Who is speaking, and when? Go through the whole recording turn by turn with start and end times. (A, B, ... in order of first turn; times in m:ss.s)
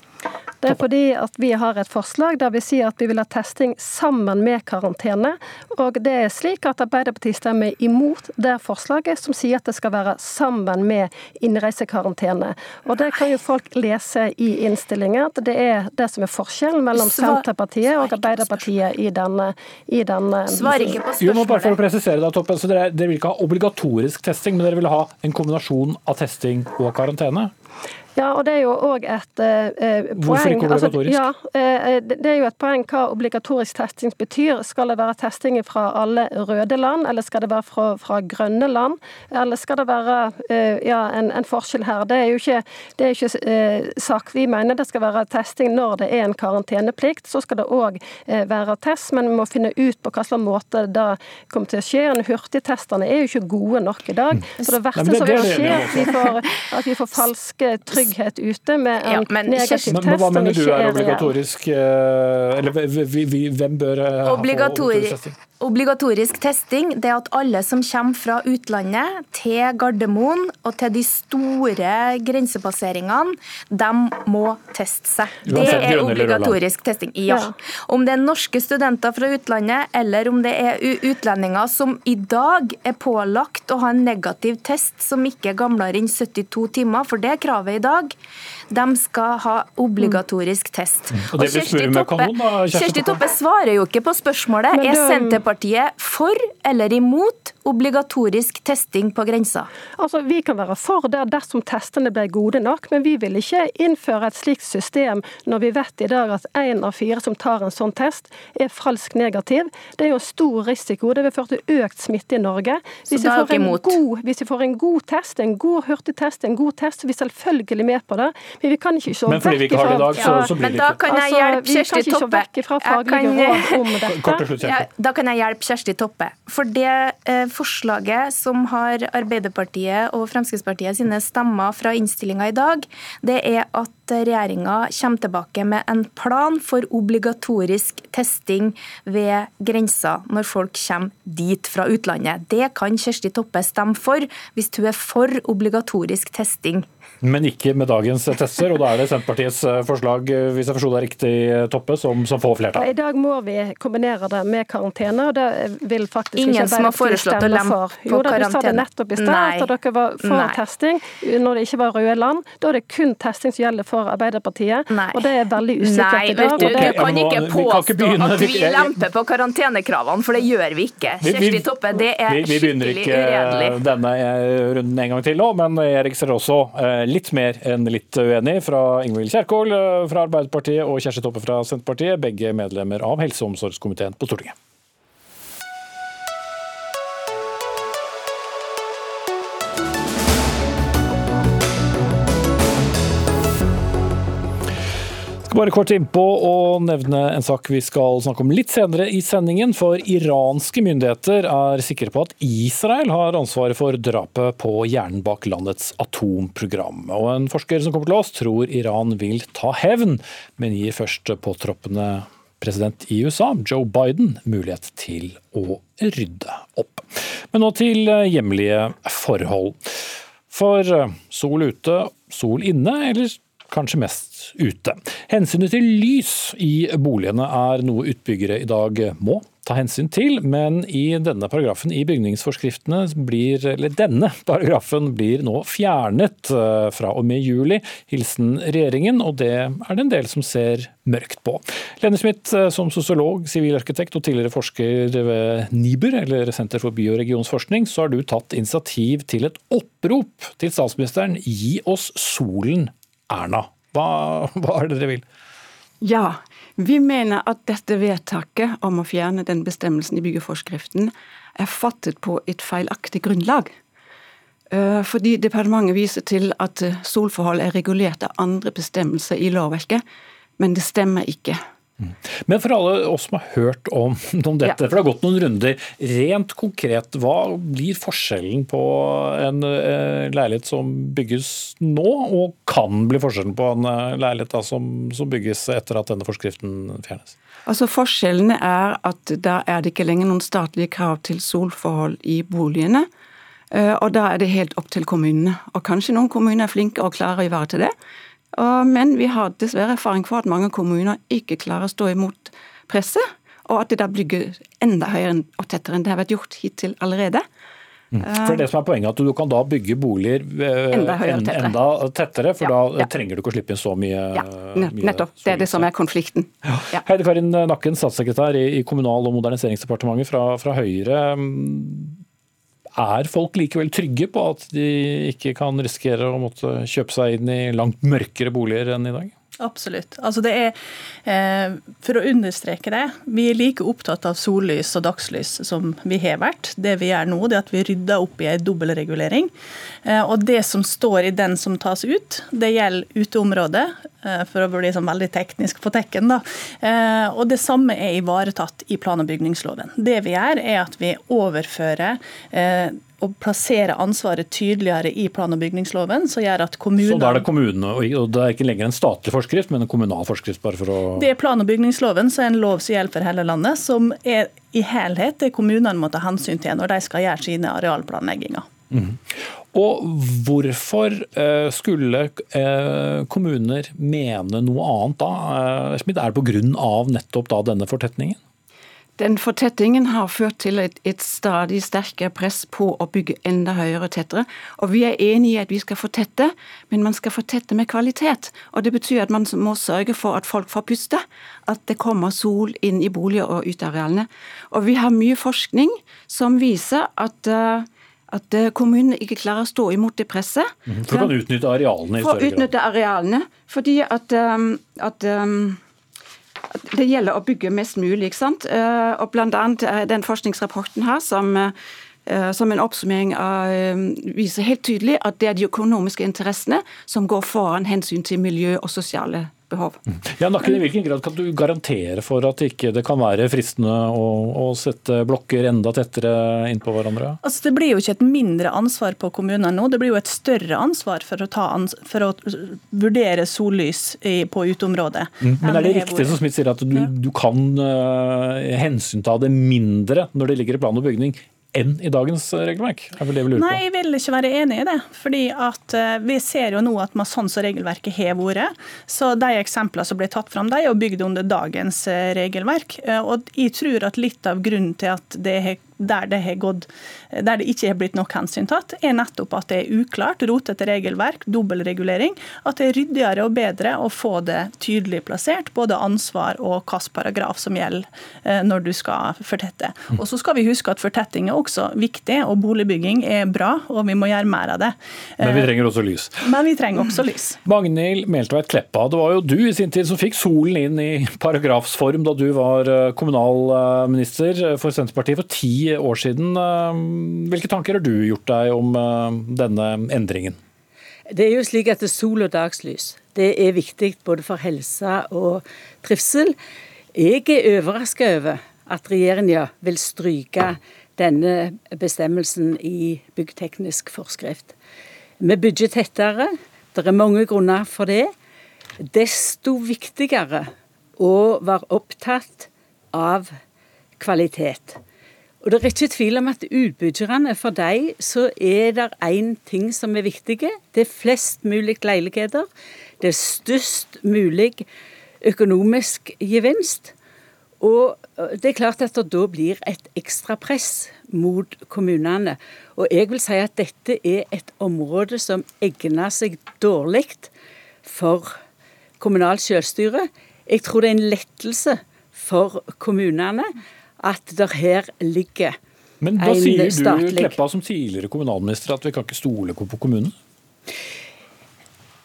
0:00.6-0:21.0 A
0:16.9-0:18.8 B
0:20.5-0:21.8 B
0:21.2-0:27.5 C
0:28.2-1:01.3 A
0:30.2-0:31.2 C
0:54.9-0:56.2 C
0:55.6-0:56.3 B
0:59.0-1:00.0 B
0:59.9-1:05.3 C
1:04.2-1:28.1 B
1:15.4-1:16.6 C
1:15.5-1:15.8 A
1:28.7-1:39.7 B
1:31.1-1:33.2 C
1:34.7-1:35.4 A
1:40.0-2:00.5 A
1:53.0-1:54.0 B
1:59.3-2:01.0 C
2:00.2-2:03.9 B
2:01.0-2:04.5 A
2:04.1-2:04.8 C
2:04.6-2:26.9 B
2:27.2-2:32.9 C
2:32.8-2:47.1 A
2:36.4-2:39.7 B
2:40.2-2:40.6 B
2:44.9-2:53.8 B
2:46.6-2:49.0 C
2:51.2-3:04.5 C
3:15.4-3:39.9 C
3:40.5-4:15.2 C
4:16.0-4:23.7 D
4:24.7-4:30.0 D
4:30.6-4:31.6 D
4:32.0-4:47.3 C
4:47.6-4:53.1 D
4:53.7-4:57.9 D
4:58.5-5:07.4 D
5:08.1-5:15.9 C
5:08.2-5:08.7 D
5:10.9-5:11.8 D
5:14.3-5:17.0 D
5:16.6-5:22.2 C
5:23.0-5:29.3 C
5:29.6-5:39.5 E
5:40.0-5:57.5 E
5:57.0-6:01.3 C
6:01.2-6:08.7 E
6:08.9-6:18.4 C
6:19.2-6:41.4 D
6:40.9-6:42.7 C
6:42.2-6:45.8 D
6:46.7-6:51.7 D
6:52.2-7:00.0 D
7:00.1-7:07.4 C
7:07.4-7:16.4 E
7:15.4-7:23.8 C
7:23.5-7:55.7 E
7:55.4-7:56.5 C
7:56.4-7:57.6 E
7:57.6-8:10.6 C
8:11.3-8:16.6 F
8:17.1-8:24.7 F
8:25.4-8:28.3 F
8:29.1-8:33.5 F
8:34.2-8:35.0 F
8:35.6-8:42.7 F
8:43.2-8:44.8 F
8:45.4-8:47.1 F
8:47.8-8:57.5 F
8:58.0-8:58.6 F
8:59.2-9:05.8 F
9:06.2-9:10.3 C
9:06.4-9:07.6 F